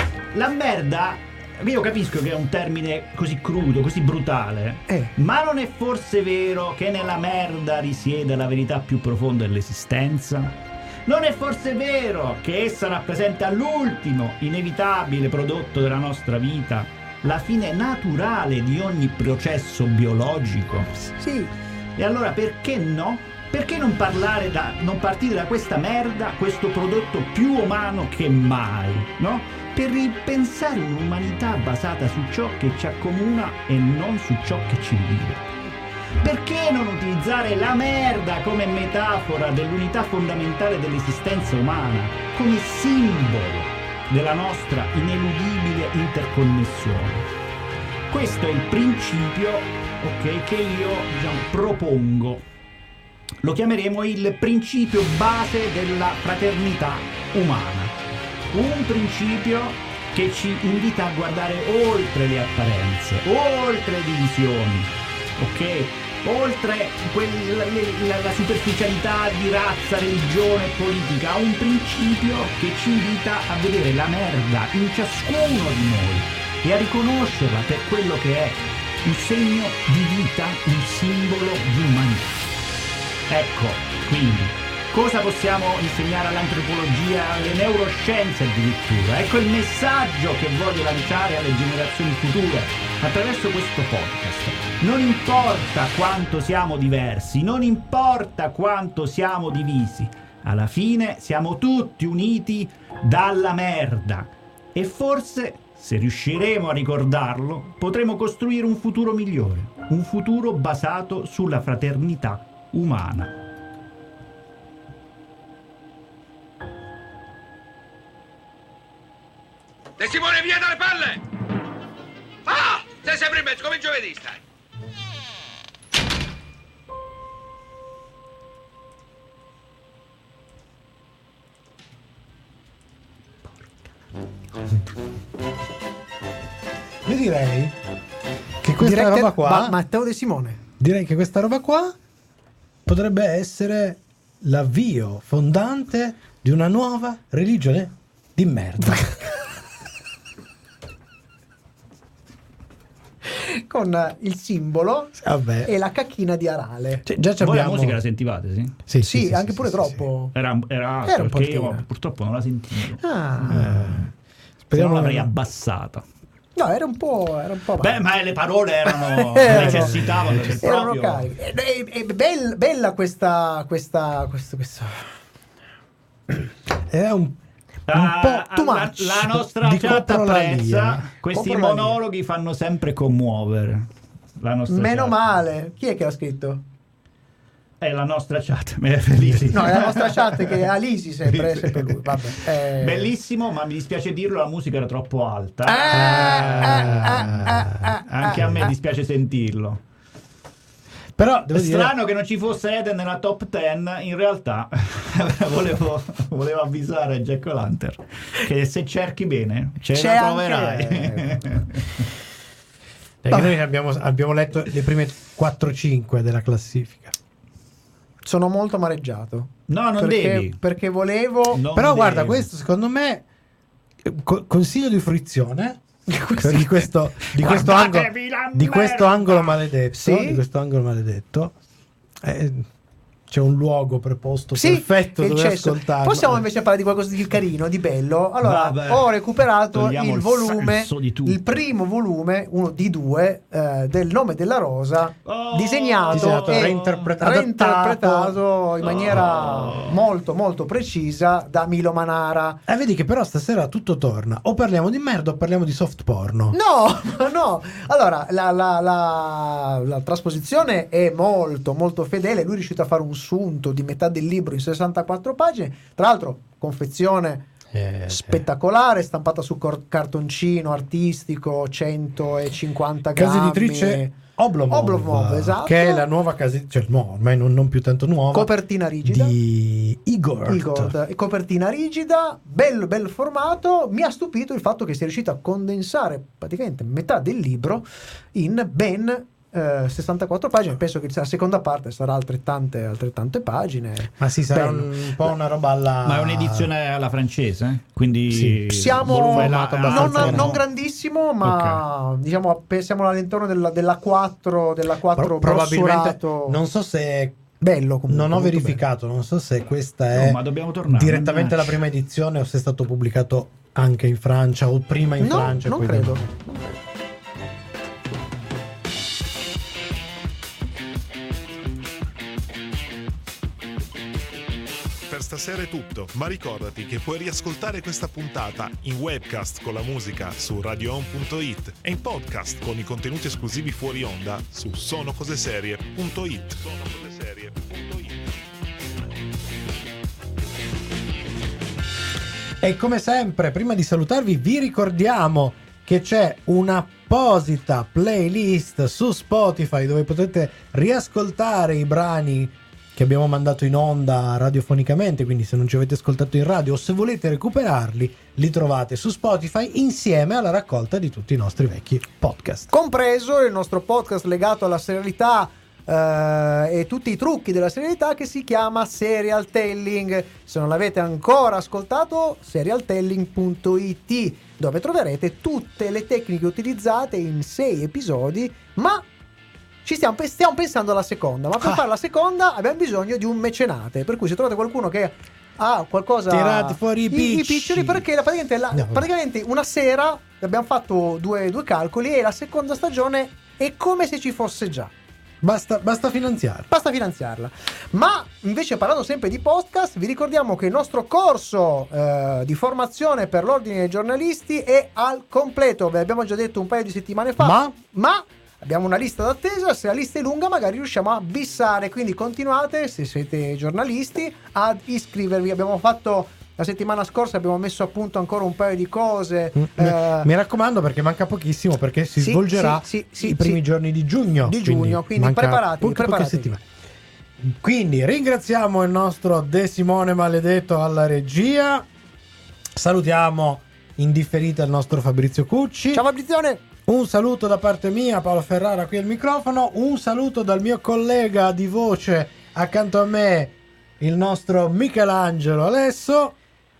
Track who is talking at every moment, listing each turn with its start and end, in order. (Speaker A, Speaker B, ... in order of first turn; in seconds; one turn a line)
Speaker A: 0.3-21.1
Speaker B: 21.1-21.5
Speaker A: 22.0-35.5
Speaker A: 36.2-47.3
Speaker A: 48.1-52.5
Speaker A: 53.4-58.0
Speaker A: 58.5-82.5
Speaker A: 83.3-113.3
Speaker C: 120.0-121.2
Speaker C: 122.5-124.4
Speaker D: 137.1-137.8
Speaker D: 138.6-139.8
Speaker B: 138.8-140.6
Speaker D: 140.8-141.9
Speaker D: 142.9-149.3
Speaker B: 153.2-157.0
Speaker D: 155.2-155.7
Speaker D: 157.1-158.0
Speaker A: 157.4-158.8
Speaker D: 158.9-160.1
Speaker B: 159.0-160.3
Speaker A: 160.3-164.1
Speaker B: 161.1-161.8
Speaker B: 163.0-163.6
Speaker D: 163.5-164.1
Speaker D: 164.7-165.3
Speaker A: 164.7-166.0
Speaker B: 166.6-168.1
Speaker A: 167.8-171.3
Speaker B: 168.9-175.1
Speaker D: 169.5-170.6
Speaker D: 176.9-177.4
Speaker A: 177.9-185.2
Speaker D: 177.9-178.4
Speaker B: 178.3-179.4
Speaker D: 179.5-181.1
Speaker B: 181.3-182.0
Speaker B: 184.7-186.6
Speaker A: 187.8-190.6
Speaker B: 189.5-193.1
Speaker A: 192.7-197.3
Speaker B: 195.7-198.7
Speaker D: 195.9-197.9
Speaker A: 198.1-199.8
Speaker D: 201.2-201.9
Speaker A: 201.5-212.1
Speaker B: 209.9-211.6
Speaker D: 213.2-217.2
Speaker B: 218.2-221.6
Speaker A: 219.7-220.6
Speaker A: 221.5-222.5
Speaker D: 221.8-223.2
Speaker D: 224.0-225.8
Speaker B: 226.1-226.9
Speaker D: 226.4-231.6
Speaker A: 227.3-229.6
Speaker B: 229.9-230.4
Speaker D: 232.2-232.7
Speaker D: 233.3-236.4
Speaker B: 234.5-252.6
Speaker A: 238.4-239.2
Speaker A: 239.7-241.6
Speaker A: 245.2-247.1
Speaker D: 246.1-248.4
Speaker A: 248.8-250.0
Speaker D: 252.7-256.6
Speaker B: 256.5-267.5
Speaker D: 267.7-268.4
Speaker B: 268.1-274.2
Speaker D: 273.2-280.9
Speaker B: 274.7-276.1
Speaker B: 278.3-279.4
Speaker B: 280.5-295.3
Speaker D: 294.2-296.7
Speaker A: 296.0-300.6
Speaker D: 298.3-300.6
Speaker B: 298.7-306.6
Speaker A: 301.4-301.8
Speaker D: 305.1-307.4
Speaker B: 307.6-308.8
Speaker D: 308.1-316.3
Speaker A: 310.1-311.8
Speaker B: 315.2-316.3
Speaker E: 325.1-338.2
Speaker D: 342.6-362.7
Speaker B: 362.7-379.1
Speaker B: 379.9-394.9
Speaker D: 386.3-388.1
Speaker D: 388.7-389.1
Speaker D: 395.4-396.7
Speaker B: 396.7-420.3
Speaker D: 407.4-407.7
Speaker D: 419.6-426.6
Speaker B: 422.2-423.6
Speaker B: 424.4-426.6
Speaker D: 427.4-431.9
Speaker D: 432.8-436.0
Speaker B: 435.9-436.6
Speaker D: 436.9-446.4